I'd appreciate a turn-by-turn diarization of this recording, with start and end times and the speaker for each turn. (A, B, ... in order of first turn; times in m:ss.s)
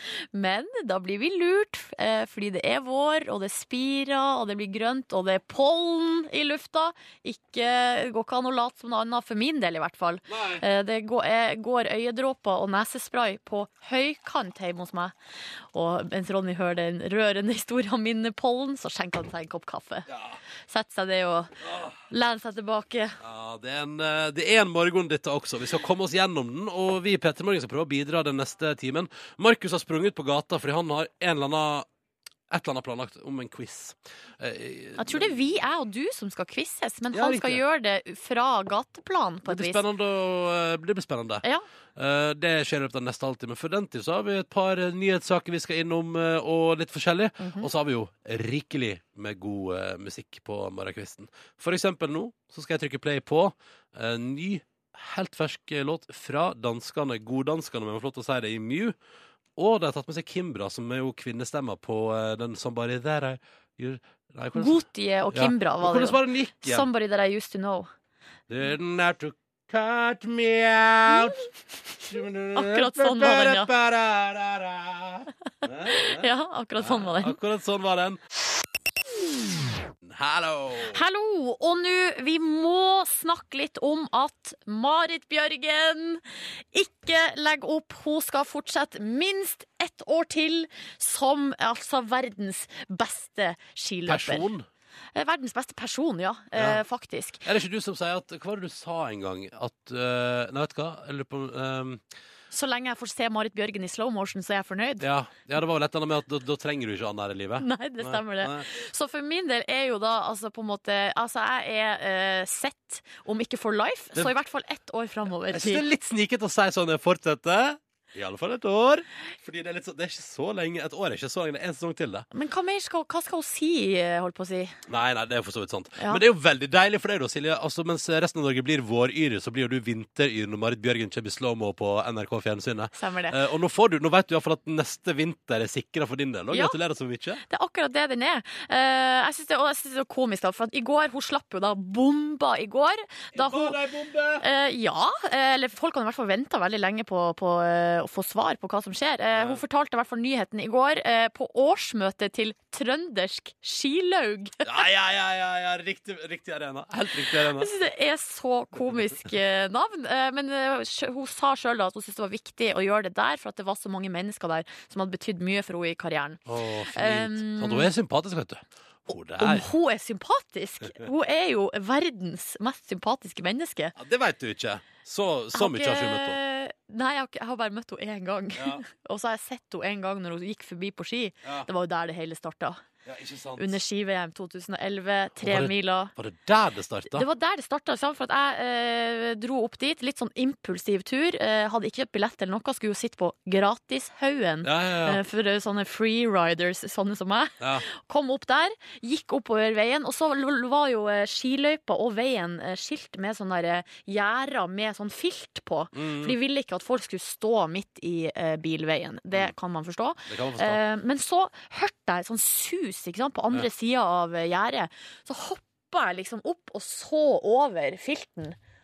0:00.3-0:15.1 A
0:10.3-0:10.6 B
0:15.7-0:20.1 A
0:20.1-0:20.4 B
0:20.7-0:21.6 A
0:21.6-0:22.0 B
0:22.1-0:23.2 A
0:23.2-0:31.9 B
0:32.5-0:35.4 B
0:35.0-0:39.8 A
0:37.1-0:37.6 B
0:39.5-0:41.4 B
0:42.0-0:59.0 B
0:47.4-0:47.7 A
0:59.6-1:06.9 B
1:04.5-1:07.9 A
1:08.5-1:11.5 B
1:12.1-1:18.2 B
1:12.5-1:13.7 A
1:15.9-1:17.4 A
1:20.0-1:21.0 B
1:20.9-1:26.2 A
1:26.7-1:34.5 A
1:34.0-1:34.7 B
1:35.1-1:37.4 A
1:36.5-1:36.8 B
1:37.4-1:42.0 B
1:42.5-1:45.0 A
1:45.0-1:48.7 B
1:47.6-1:55.8 A
1:55.5-2:02.2 B
2:02.3-2:04.8 A
2:04.9-2:17.4 B
2:12.9-2:13.4 A
2:17.5-2:23.8 A
2:23.3-2:24.4 B
2:24.4-2:34.7 A
2:29.3-2:29.6 B
2:34.6-2:37.7 B
2:37.2-2:46.4 A
2:46.4-2:49.7 B
2:46.9-2:47.9 A
2:49.4-2:53.9 A
2:54.0-2:56.4 B
2:55.5-3:02.8 A
2:58.6-2:58.8 B
3:03.0-3:03.8 B
3:03.6-3:06.1 A
3:05.4-3:07.2 B
3:07.1-3:38.6 A
3:14.6-3:15.2 B
3:25.9-3:26.3 B
3:30.3-3:30.8 B